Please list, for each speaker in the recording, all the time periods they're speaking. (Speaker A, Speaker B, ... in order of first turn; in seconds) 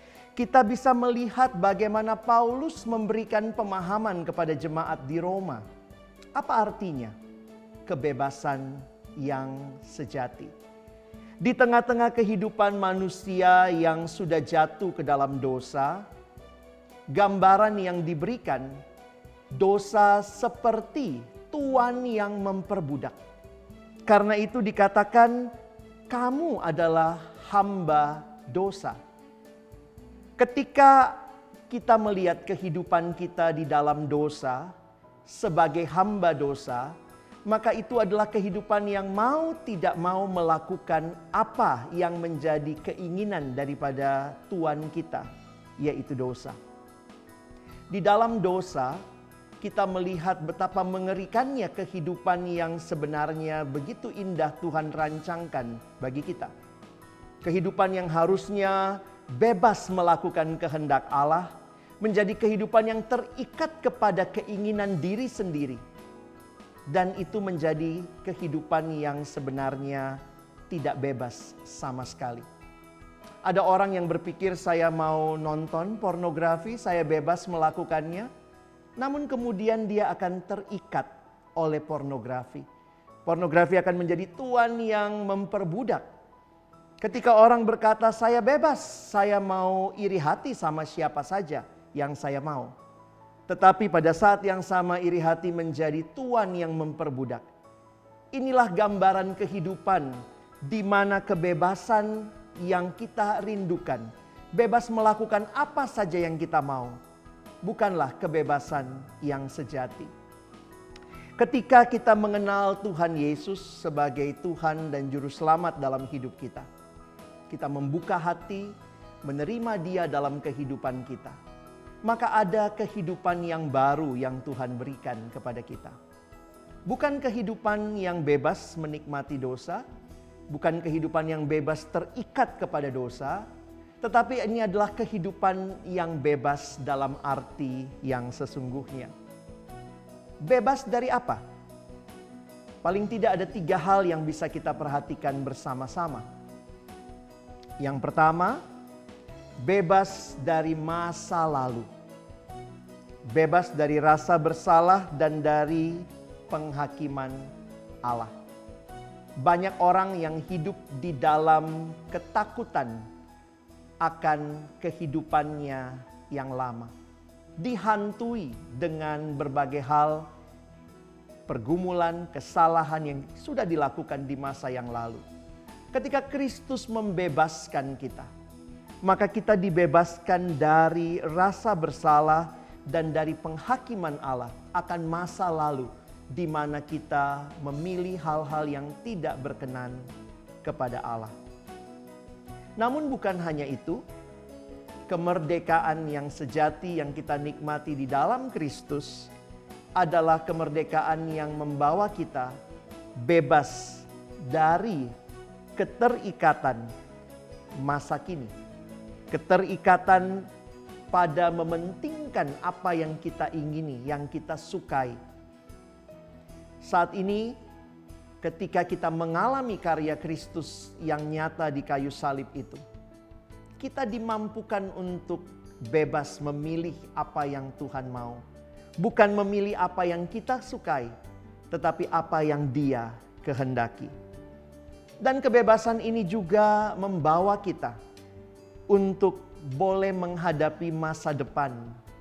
Speaker A: 0.3-5.6, 6.3-7.1, 7.8-10.5, 11.4-16.1, 17.1-18.8, 19.5-23.2, 24.1-25.5, 26.1-29.0, 30.4-34.7, 35.2-36.9, 37.5-46.6, 47.9-49.0, 49.6-56.5, 57.4-65.8, 66.9-70.2, 70.7-72.5, 73.4-78.3, 79.0-82.7, 83.2-86.0, 87.0-92.7, 93.5-97.4, 98.3-107.0, 107.6-110.1, 111.4-116.7, 117.5-121.4, 122.0-125.9, 126.9-129.8, 130.5-133.5, 134.0-139.1, 140.4-141.4, 142.8-146.3, 147.8-148.6, 149.6-151.9, 153.3-157.5, 158.0-158.3, 159.4-163.0, 164.0-166.9, 167.6-170.3, 171.5-175.2, 175.9-178.3, 179.0-190.1, 190.6-191.3, 192.8-194.0, 195.1-199.3, 200.0-202.5, 203.2-205.1, 205.8-206.9, 207.8-208.5, 209.3-210.5, 211.1-215.2, 216.8-217.6, 218.4-222.8, 223.8-228.4, 229.0-231.1, 231.7-234.1, 235.2-238.0, 238.9-241.9